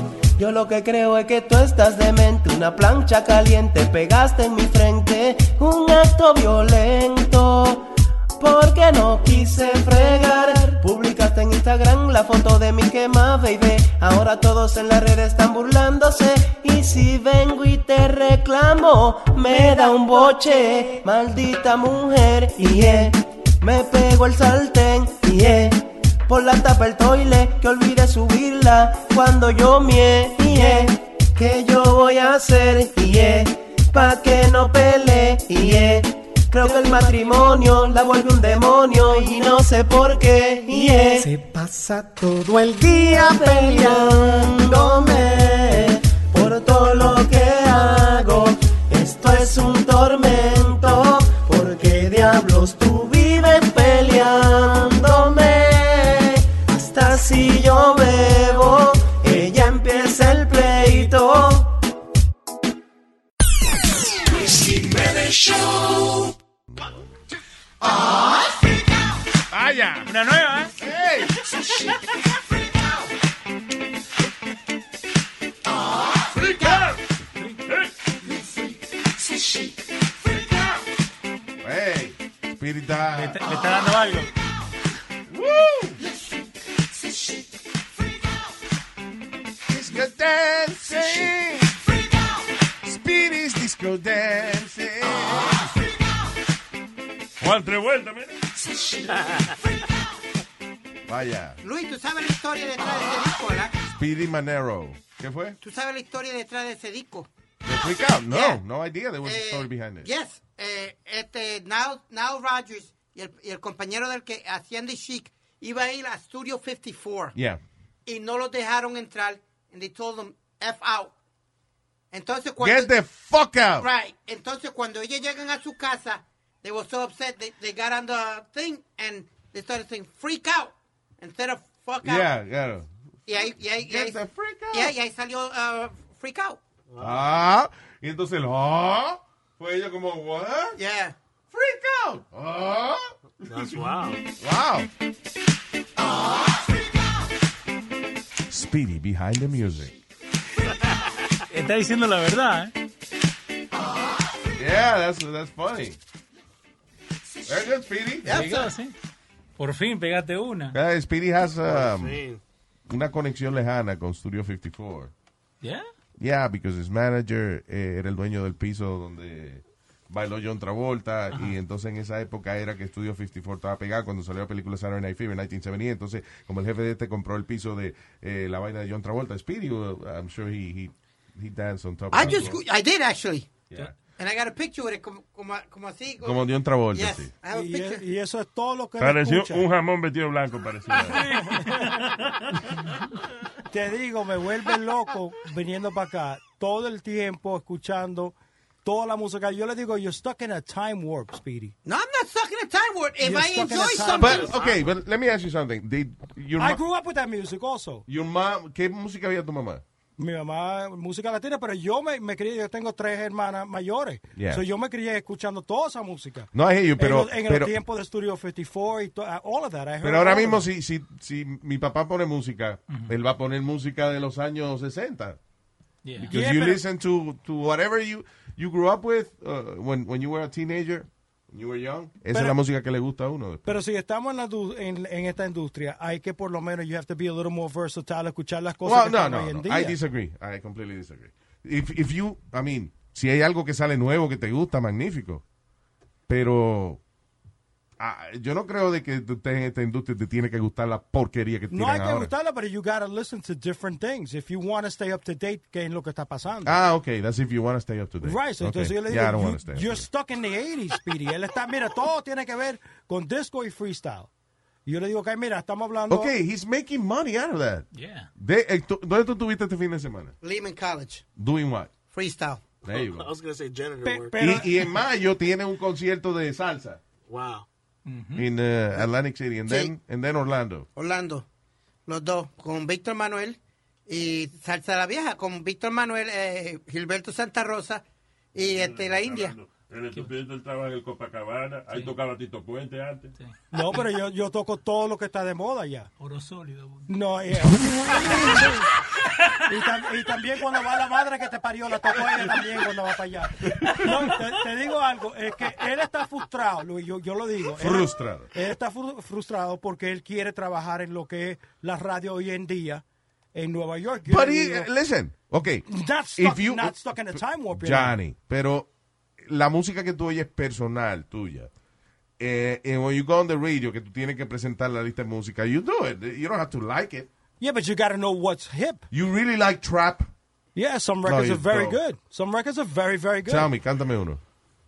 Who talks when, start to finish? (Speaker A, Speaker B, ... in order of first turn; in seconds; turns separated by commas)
Speaker A: 0.4-61.8, Speaker B: 66.7-67.0, Speaker B: 69.5-70.1, Speaker C: 70.1-70.7, Speaker B: 70.7-71.5, Speaker D: 76.3-77.0, Speaker D: 77.7-77.9, Speaker B: 81.6-83.4, Speaker C: 83.1-84.3, Speaker B: 85.3-86.0, Speaker B: 89.7-91.8, Speaker B: 92.8-95.9, Speaker D: 97.4-98.3, Speaker E: 99.1-99.5, Speaker B: 101.1-101.6, Speaker F: 101.6-103.7, Speaker B: 103.9-105.6, Speaker F: 105.6-107.3, Speaker B: 107.7-110.1, Speaker F: 108.3-108.6, Speaker F: 109.2-117.3, Speaker B: 117.3-117.6, Speaker F: 118.1-121.1, Speaker F: 122.1-122.9, Speaker B: 122.6-123.9, Speaker F: 123.8-132.3, Speaker B: 132.0-132.9, Speaker F: 133.3-134.2, Speaker B: 133.4-134.9, Speaker F: 134.7-136.6, Speaker E: 136.9-137.3, Speaker B: 137.0-140.8, Speaker F: 140.8-141.2, Speaker B: 141.5-143.9, Speaker E: 143.4-144.2, Speaker B: 144.4-144.9, Speaker B: 148.5-150.0, Speaker E: 150.7-150.9, Speaker C: 151.5-152.7, Speaker B: 154.6-156.0, Speaker B: 157.5-158.5, Speaker F: 158.2-158.7, Speaker C: 158.3-158.9, Speaker C: 159.6-160.8, Speaker B: 160.7-162.2, Speaker E: 161.7-162.4, Speaker B: 162.9-165.1, Speaker C: 165.6-165.9, Speaker B: 166.2-182.6, Speaker F: 182.1-183.5, Speaker F: 184.2-188.0, Speaker B: 186.2-187.3, Speaker G: 187.5-189.7, Speaker D: 189.0-192.4, Speaker C: 191.1-191.6, Speaker G: 191.3-192.0, Speaker G: 193.7-201.8, Speaker F: 201.9-204.6, Speaker G: 203.2-204.5, Speaker B: 204.2-206.8, Speaker G: 206.6-208.1, Speaker B: 208.1-209.8, Speaker G: 210.2-220.7, Speaker B: 214.4-214.6, Speaker B: 216.5-217.7, Speaker B: 220.0-225.4, Speaker C: 226.0-226.5, Speaker B: 226.2-233.7, Speaker G: 226.3-226.8, Speaker G: 232.3-232.6, Speaker G: 233.7-240.0, Speaker B: 238.8-245.4, Speaker B: 246.3-247.0, Speaker B: 248.0-252.3, Speaker G: 251.7-256.8, Speaker B: 256.6-260.1, Speaker G: 258.2-264.3, Speaker G: 264.9-266.3, Speaker B: 266.1-270.4, Speaker C: 267.9-268.3, Speaker F: 270.4-271.3, Speaker B: 271.4-271.9, Speaker F: 272.1-272.6, Speaker E: 272.8-274.6, Speaker B: 272.9-273.3, Speaker G: 274.0-274.9, Speaker B: 274.4-277.0, Speaker E: 277.3-277.7, Speaker C: 278.1-278.5, Speaker B: 278.4-280.9, Speaker F: 281.0-281.5, Speaker F: 282.1-289.6, Speaker D: 288.6-293.3, Speaker C: 293.4-294.1, Speaker G: 293.7-296.1, Speaker C: 296.2-297.1, Speaker G: 297.1-298.9, Speaker C: 298.1-299.6, Speaker G: 299.7-314.9, Speaker C: 302.1-302.7, Speaker C: 303.9-304.4, Speaker B: 307.8-308.5, Speaker B: 314.3-318.9, Speaker G: 315.9-318.2, Speaker B: 319.4-321.7, Speaker B: 322.4-327.3, Speaker G: 327.6-329.1, Speaker B: 329.1-330.3, Speaker G: 330.8-333.7, Speaker B: 331.2-332.0, Speaker B: 333.5-334.4